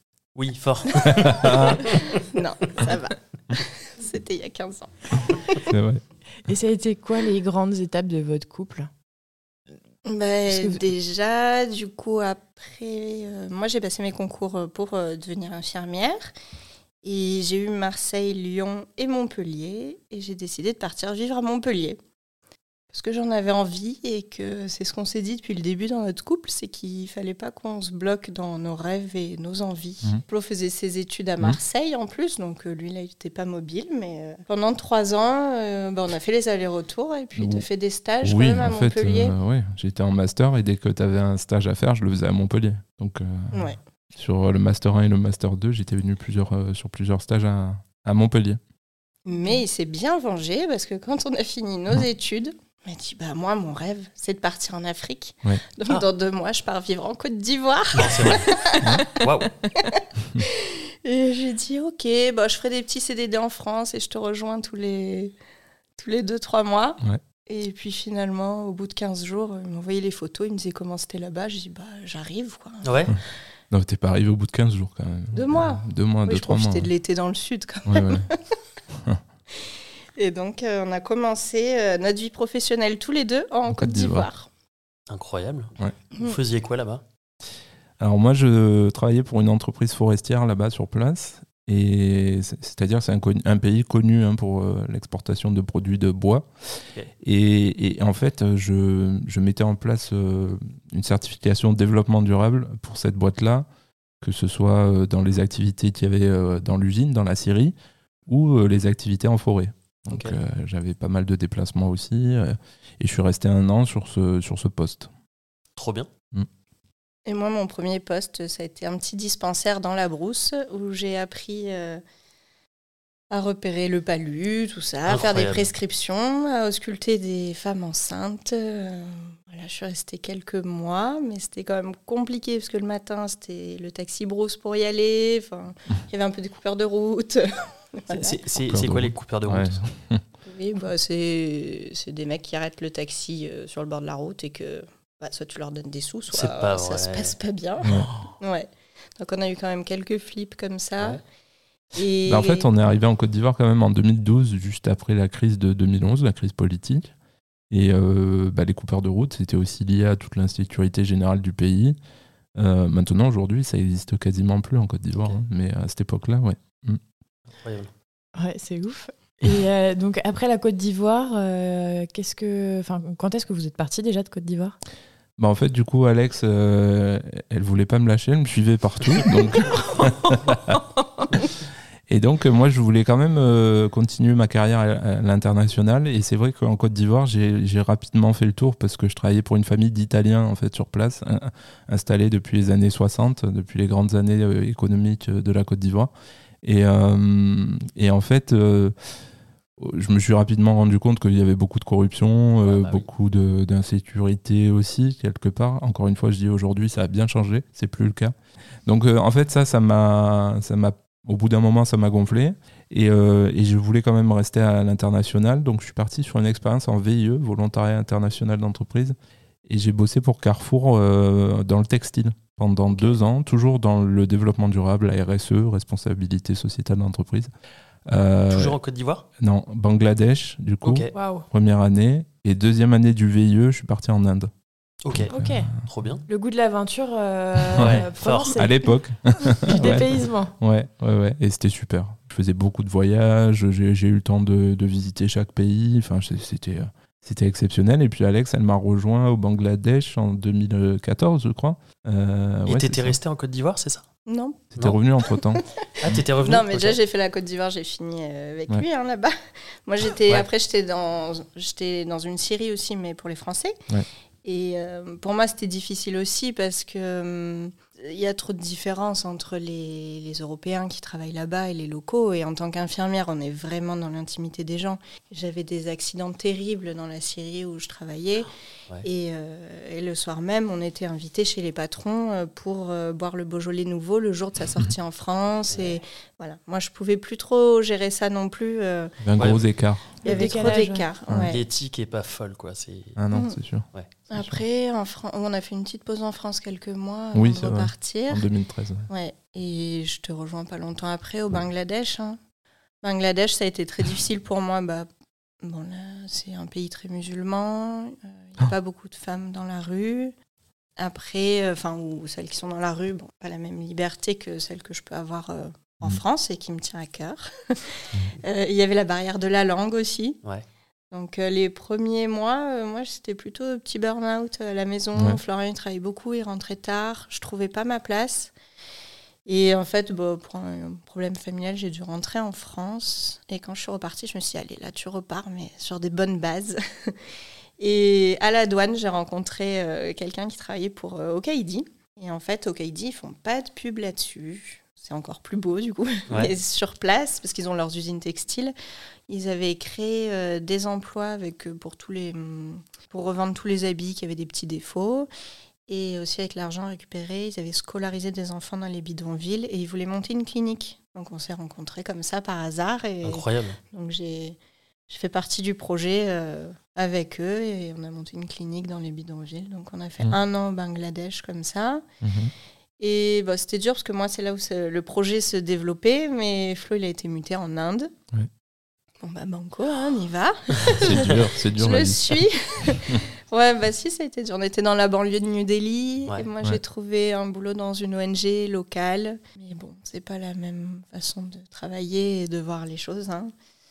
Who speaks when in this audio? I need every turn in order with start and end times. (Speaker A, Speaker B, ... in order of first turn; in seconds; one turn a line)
Speaker A: 0.3-2.1
Speaker B: 1.1-1.8
Speaker C: 1.7-5.7
Speaker B: 5.7-6.0
Speaker D: 6.5-8.9
Speaker C: 10.1-16.3
Speaker D: 10.5-10.8
Speaker C: 17.0-22.0
Speaker C: 22.9-39.4
Speaker B: 37.4-37.6
Speaker B: 38.2-48.6
Speaker C: 43.5-43.8
Speaker C: 49.2-65.3
Speaker A: 58.0-58.5
Speaker A: 59.2-59.5
Speaker C: 66.0-73.1
Speaker A: 72.8-73.1
Speaker B: 73.7-76.9
Speaker C: 75.3-78.4
Speaker B: 77.9-78.3
Speaker C: 80.2-84.5
Speaker B: 83.7-84.3
Speaker A: 85.1-87.0
Speaker B: 88.0-96.5
Speaker B: 97.2-103.7
Speaker B: 104.2-107.7
Speaker B: 108.3-115.1
Speaker A: 110.1-110.4
Speaker A: 115.8-116.1
Speaker C: 117.3-122.0
Speaker C: 123.3-138.4
Speaker A: 125.1-125.7
Speaker A: 138.1-139.8
Speaker B: 138.7-140.2
Speaker C: 140.5-148.7
Speaker A: 146.3-147.4
Speaker C: 149.2-151.2
Speaker C: 151.9-152.7
Speaker B: 152.3-157.1
Speaker B: 157.7-162.0
Speaker B: 162.6-167.0
Speaker A: 167.6-167.9
Speaker D: 168.3-174.8
Speaker B: 175.4-180.8
Speaker B: 182.1-196.1
Speaker B: 196.6-198.9
Speaker B: 199.8-208.3
Speaker A: 202.6-203.1
Speaker B: 208.9-219.2
Speaker B: 219.7-227.5
Speaker A: 222.9-223.2
Speaker B: 228.1-228.8
Speaker A: 228.5-229.3
Speaker B: 229.4-234.5
Speaker A: 230.8-231.1
Speaker D: 231.1-231.5
Speaker A: 235.0-235.3
Speaker B: 235.1-235.9
Speaker D: 235.3-235.7
Speaker A: 235.9-236.2
Speaker D: 236.3-238.9
Speaker A: 237.7-238.6
Speaker B: 238.5-253.2
Speaker D: 239.6-240.5
Speaker A: 252.7-254.0
Speaker C: 254.3-254.6
Speaker B: 254.7-256.2
Speaker C: 255.3-255.6
Speaker A: 256.0-257.0
Speaker C: 256.4-259.3
Speaker C: 259.9-263.8
Speaker C: 264.4-278.5
Speaker C: 279.0-289.6
Speaker A: 285.7-286.0
Speaker B: 289.2-290.7
Speaker A: 289.4-289.6
Speaker C: 290.2-291.6
Speaker D: 290.2-291.1
Speaker B: 291.3-291.6
Speaker A: 291.5-293.2
Speaker B: 293.2-294.6
Speaker C: 293.3-293.6
Speaker C: 294.3-298.5
Speaker B: 297.3-299.1
Speaker C: 299.1-302.4
Speaker C: 303.0-305.1
Speaker C: 305.6-310.3
Speaker C: 311.0-317.8
Speaker C: 318.4-320.4
Speaker C: 321.1-328.5
Speaker C: 329.5-337.1
Speaker C: 337.8-348.7
Speaker C: 349.3-355.3
Speaker C: 355.9-364.6
Speaker A: 363.2-363.8
Speaker C: 365.1-372.0
Speaker B: 372.2-372.5
Speaker C: 373.0-378.1
Speaker C: 379.2-393.5
Speaker B: 380.9-382.4